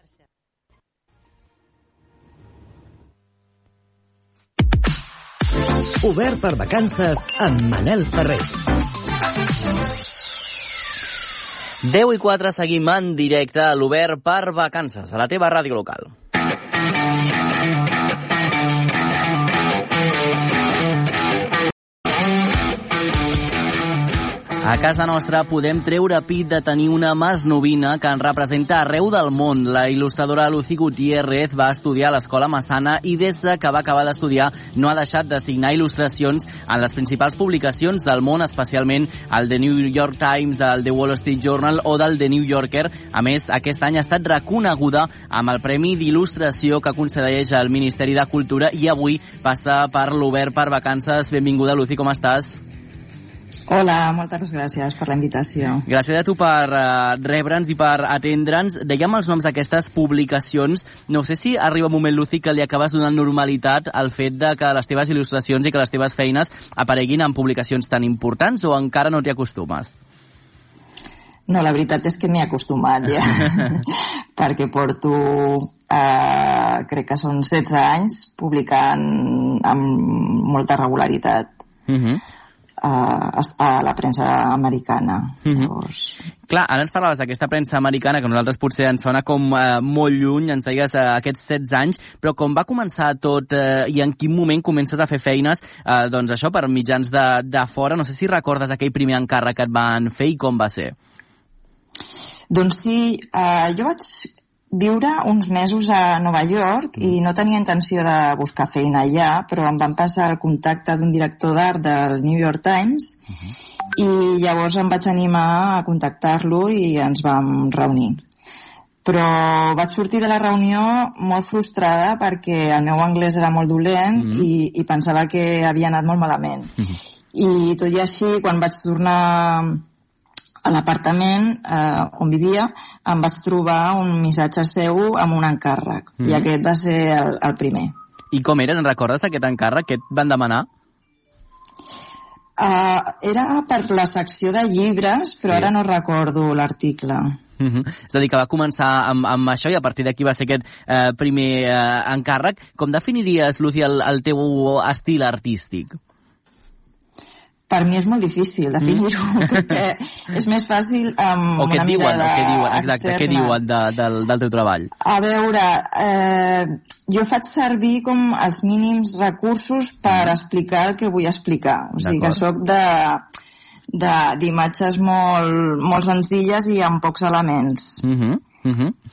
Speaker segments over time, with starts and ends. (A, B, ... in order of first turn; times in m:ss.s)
0:06.0-0:08.5 A
0:11.8-0:16.1 B
0:24.6-0:52.6 B
0:53.7-0:55.8 C
0:55.9-1:09.9 B
1:11.5-1:13.8 C
1:14.4-1:21.5 C
1:21.9-1:22.2 B
1:22.8-1:26.2 C
1:25.4-1:25.7 B
1:26.5-1:40.9 B
1:42.5-1:53.2 C
1:54.0-1:58.2 C
1:59.0-2:06.7 C
2:04.2-2:04.5 B
2:07.3-2:09.8 C
2:10.6-2:17.9 C
2:18.3-2:20.7 B
2:22.6-2:27.4 C
2:27.6-2:36.0 B
2:37.7-2:43.6 C
2:41.6-2:44.9 B
2:45.0-2:53.2 C
2:52.0-2:52.4 B
2:53.9-2:58.0 C
2:58.0-2:58.9 B